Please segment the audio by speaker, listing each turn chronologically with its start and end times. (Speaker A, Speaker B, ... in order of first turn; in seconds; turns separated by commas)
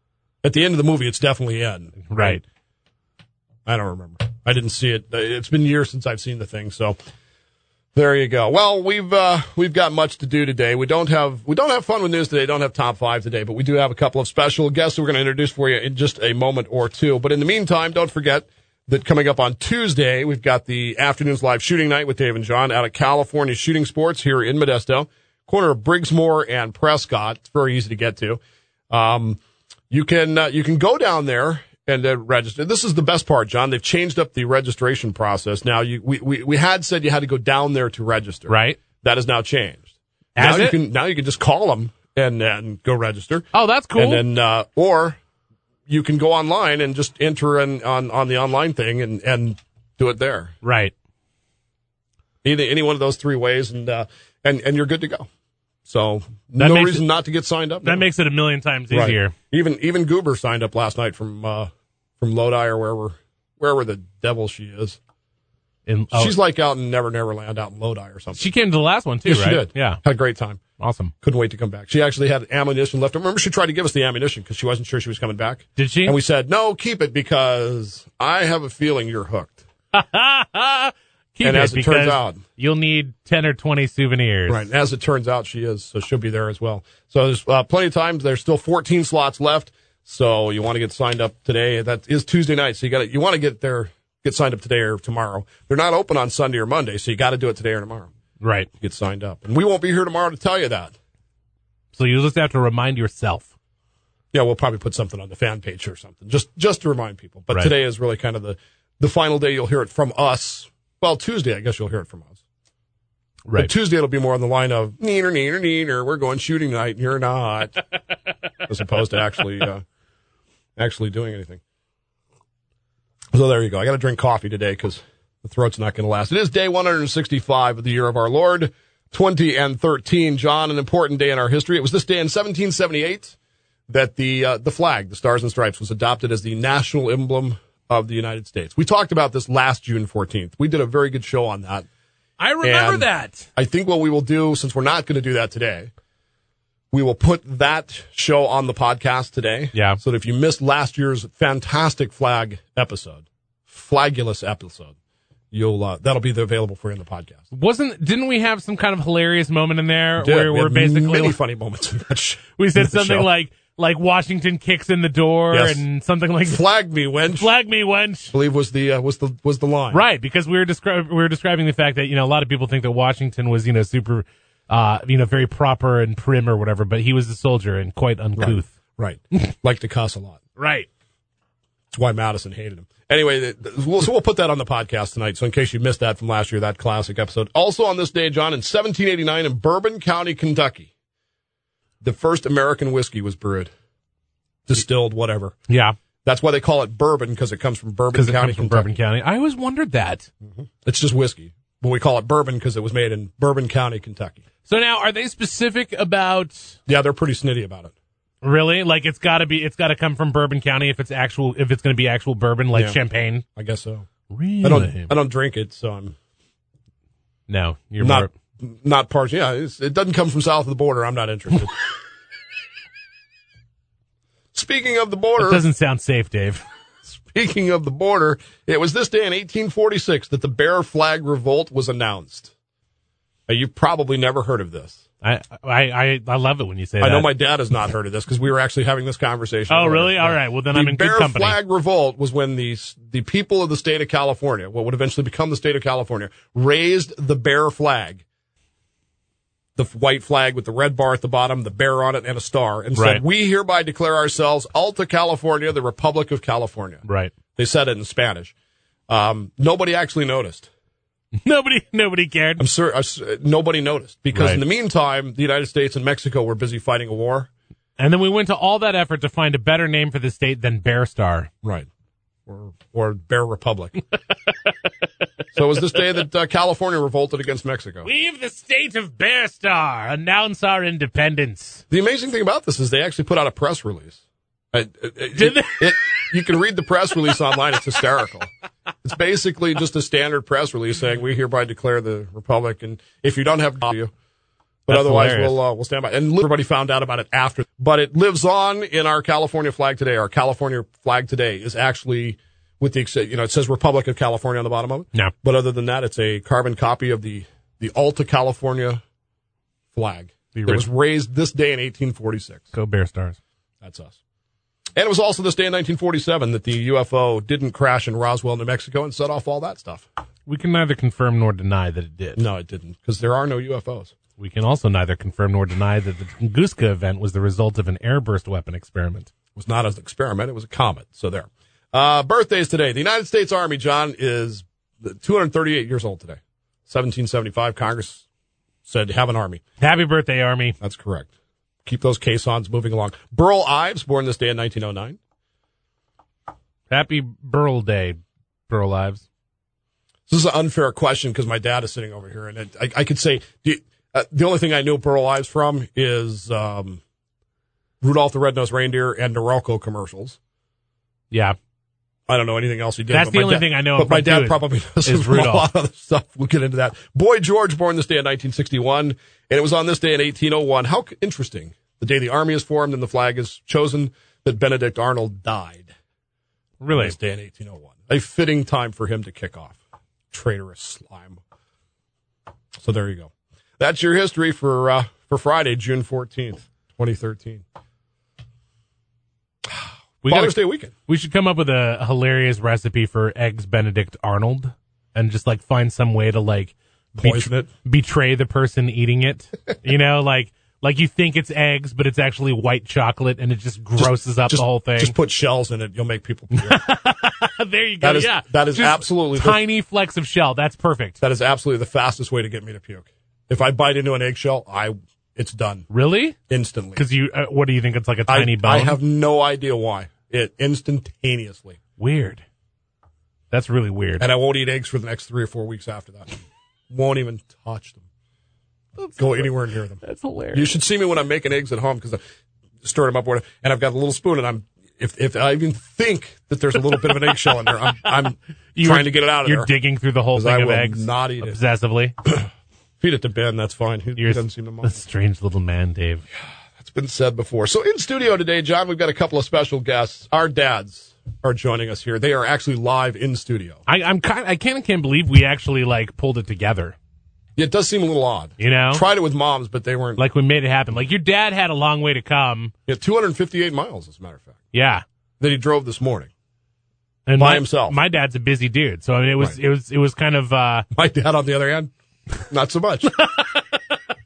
Speaker A: 0.4-2.4, Speaker B: 2.1-2.4, Speaker A: 3.7-7.0, Speaker A: 7.9-29.4, Speaker A: 29.9-39.9, Speaker B: 38.5-38.8, Speaker B: 40.4-40.8, Speaker A: 40.4-45.2, Speaker B: 43.5-44.2, Speaker A: 45.9-50.5, Speaker B: 50.6-50.9, Speaker A: 52.4-55.3, Speaker A: 55.9-58.0, Speaker B: 56.6-57.0, Speaker B: 57.8-59.3, Speaker A: 58.9-65.0, Speaker B: 65.9-66.4, Speaker A: 66.1-68.4, Speaker B: 68.4-70.0, Speaker A: 69.3-70.6, Speaker B: 70.8-71.1, Speaker A: 71.2-79.6, Speaker B: 75.8-76.2, Speaker B: 79.9-84.6, Speaker A: 81.4-82.4, Speaker A: 84.5-98.1, Speaker B: 98.4-98.7, Speaker A: 98.8-101.0, Speaker B: 101.9-103.5, Speaker A: 104.3-112.4, Speaker A: 113.6-117.8, Speaker A: 118.7-119.8, Speaker A: 120.8-121.6, Speaker A: 123.3-133.3, Speaker A: 133.9-141.9, Speaker B: 142.4-143.5, Speaker A: 142.6-145.9, Speaker A: 146.9-154.9, Speaker B: 149.7-150.0, Speaker A: 155.5-157.4, Speaker B: 157.5-161.4, Speaker A: 160.2-163.3, Speaker B: 162.6-166.6, Speaker A: 165.5-165.8, Speaker A: 166.5-167.5, Speaker B: 167.3-168.3, Speaker A: 168.3-170.0, Speaker B: 169.9-178.7, Speaker A: 178.4-180.4, Speaker B: 180.6-180.9, Speaker A: 181.9-190.9, Speaker A: 192.0-193.7, Speaker A: 194.7-195.6, Speaker B: 195.7-196.0, Speaker A: 196.2-198.9, Speaker B: 198.1-200.3, Speaker A: 200.5-204.4, Speaker B: 204.7-206.8, Speaker A: 206.9-207.9, Speaker B: 208.4-213.4, Speaker A: 212.7-213.0, Speaker A: 213.6-214.1, Speaker B: 214.3-215.1, Speaker A: 214.6-216.2, Speaker B: 217.5-218.3, Speaker A: 218.0-221.9, Speaker A: 224.5-225.6, Speaker B: 225.4-226.6, Speaker A: 227.2-232.5, Speaker A: 233.5-235.0, Speaker B: 235.2-237.3, Speaker A: 237.0-248.2, Speaker B: 239.7-241.6, Speaker A: 249.8-257.0, Speaker B: 252.9-253.2, Speaker B: 257.1-257.3, Speaker A: 257.6-258.5, Speaker A: 259.1-260.7, Speaker B: 261.4-262.6, Speaker A: 262.6-267.5, Speaker B: 264.3-264.6, Speaker B: 268.0-271.5, Speaker A: 272.5-274.0, Speaker A: 275.6-278.1, Speaker B: 278.1-281.8, Speaker A: 281.9-284.2, Speaker A: 284.7-288.5, Speaker B: 285.4-286.1, Speaker A: 289.0-294.1, Speaker A: 294.9-309.0, Speaker B: 294.9-295.6, Speaker A: 309.9-312.7, Speaker B: 310.6-310.9, Speaker B: 312.7-313.4, Speaker A: 313.8-314.2, Speaker A: 315.0-320.1, Speaker B: 320.5-322.4, Speaker A: 322.4-324.1, Speaker B: 324.4-329.3, Speaker A: 329.6-338.2, Speaker A: 338.9-339.6, Speaker B: 339.8-340.8, Speaker A: 340.8-341.3, Speaker A: 341.9-345.2, Speaker B: 346.9-349.2, Speaker A: 350.3-357.0, Speaker A: 358.0-360.4, Speaker B: 361.3-361.6, Speaker A: 362.3-375.9, Speaker B: 363.1-365.7, Speaker B: 376.8-377.1, Speaker A: 376.9-379.8, Speaker A: 380.3-381.4, Speaker A: 382.8-387.6, Speaker A: 389.7-390.9, Speaker B: 390.2-390.5, Speaker B: 391.1-405.1, Speaker A: 397.2-397.7, Speaker A: 404.0-406.8, Speaker B: 406.6-411.2, Speaker A: 408.0-409.6, Speaker A: 411.2-415.9, Speaker B: 415.9-416.4, Speaker A: 416.5-417.0, Speaker B: 417.0-419.0, Speaker A: 418.3-421.8, Speaker B: 422.0-422.4, Speaker B: 423.5-424.3, Speaker A: 424.2-426.3, Speaker A: 426.9-428.0, Speaker B: 429.0-429.5, Speaker A: 429.2-432.2, Speaker B: 430.0-430.8, Speaker A: 432.8-439.7, Speaker B: 438.8-442.1, Speaker A: 440.3-441.6, Speaker A: 443.0-445.0, Speaker B: 444.2-446.2, Speaker A: 446.8-453.8, Speaker B: 453.9-457.0, Speaker A: 457.6-460.2, Speaker B: 458.6-459.1, Speaker B: 460.2-462.7, Speaker A: 462.9-464.6, Speaker B: 464.7-465.0, Speaker A: 465.4-466.3, Speaker B: 467.3-470.9, Speaker A: 467.4-468.0, Speaker A: 470.9-471.9, Speaker A: 472.4-473.2, Speaker B: 473.1-473.8